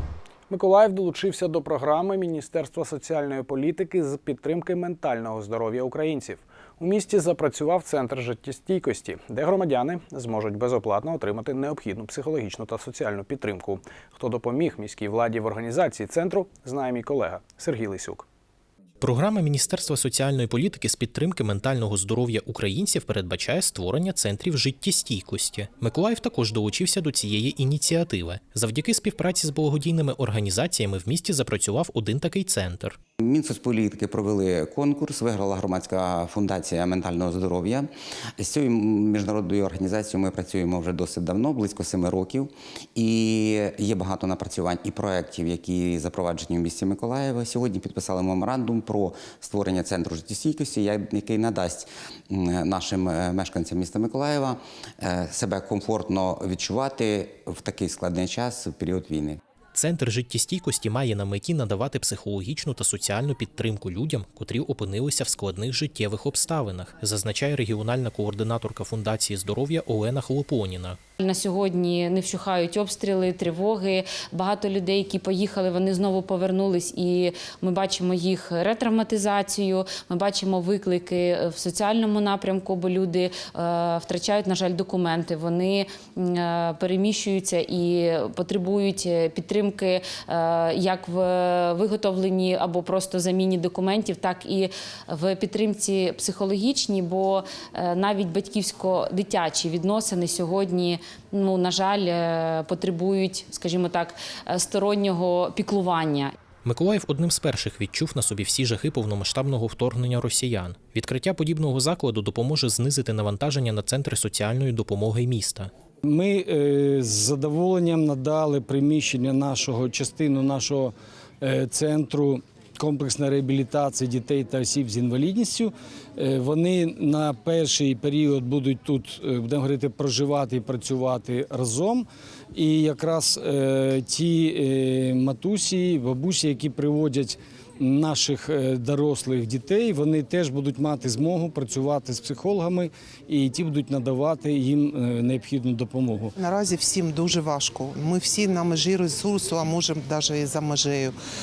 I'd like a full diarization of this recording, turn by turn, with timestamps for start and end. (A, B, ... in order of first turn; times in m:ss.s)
0:00.5-0:18.2 A
0:19.0-0:33.0 B
0:33.2-0:59.4 C
0:59.7-1:11.0 B
1:11.2-1:46.3 D
1:46.6-1:55.7 B
1:56.1-2:26.3 E
2:26.4-2:31.1 F